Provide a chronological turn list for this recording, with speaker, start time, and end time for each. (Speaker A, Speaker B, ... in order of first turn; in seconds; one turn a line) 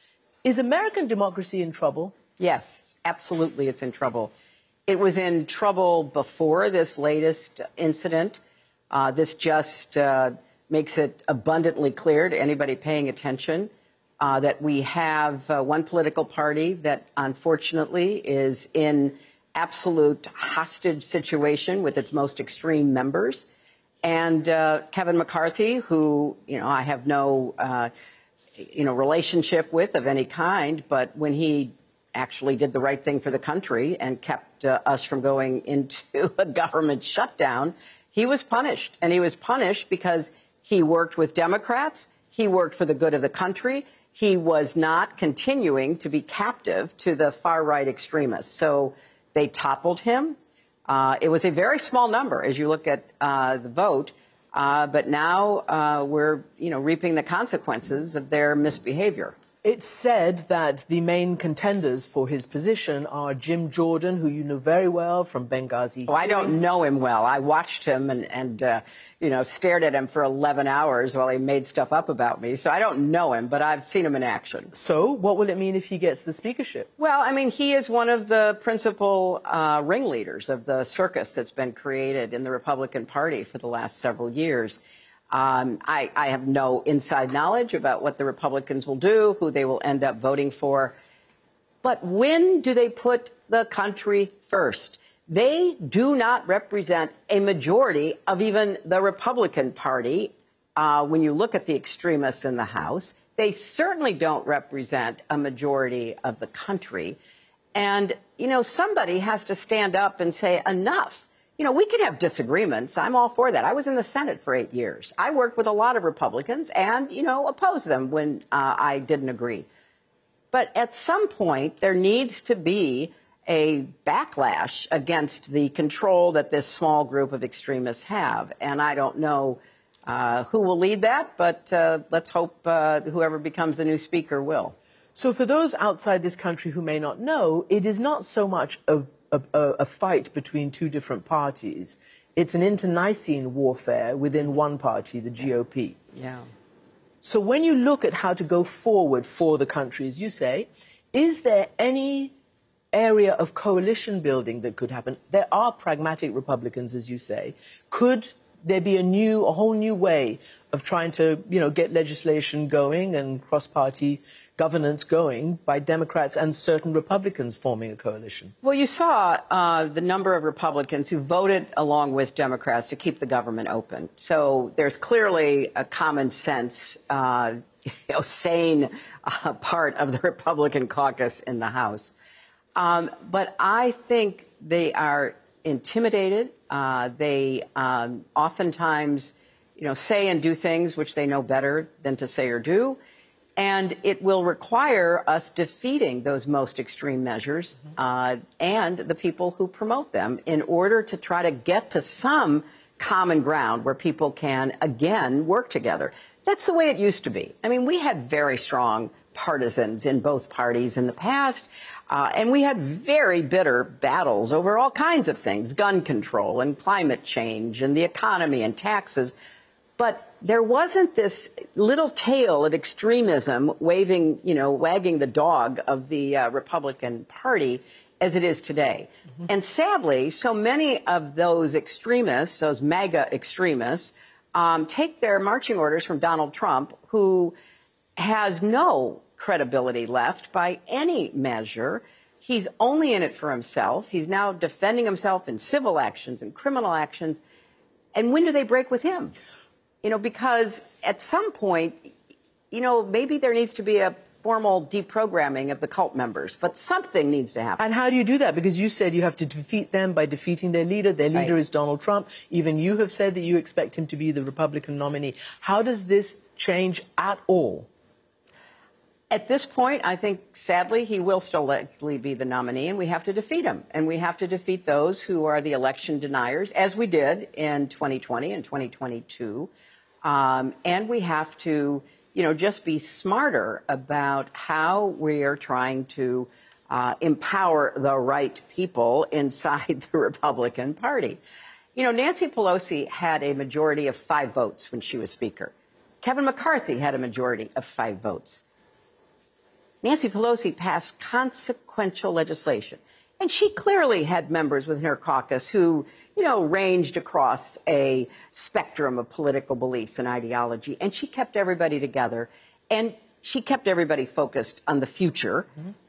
Speaker A: 0.4-2.1
Speaker B: 2.4-4.3
Speaker B: 4.9-8.4
Speaker B: 8.9-13.7
Speaker B: 14.2-23.5
Speaker B: 24.0-27.9
Speaker B: 28.6-59.4
Speaker A: 59.6-66.6
Speaker B: 66.1-74.7
Speaker A: 74.7-76.9
Speaker B: 77.0-84.8
Speaker B: 85.3-90.9
Speaker B: 91.8-107.2
Speaker B: 107.7-119.7
Speaker B: 120.5-134.7
Speaker A: 135.2-146.0
Speaker B: 146.1-146.5
Speaker A: 147.2-152.3
Speaker A: 152.9-168.5
Speaker B: 168.6-182.1
Speaker B: 182.8-193.0
Speaker B: 193.6-219.3
Speaker B: 220.0-237.5
Speaker B: 238.2-247.4
Speaker B: 248.1-249.3
Speaker B: 250.0-252.0
Speaker B: 252.7-257.8
Speaker A: 257.8-267.9
Speaker B: 269.3-279.7
Speaker B: 280.2-291.4
Speaker B: 291.9-298.6
Speaker B: 300.0-315.7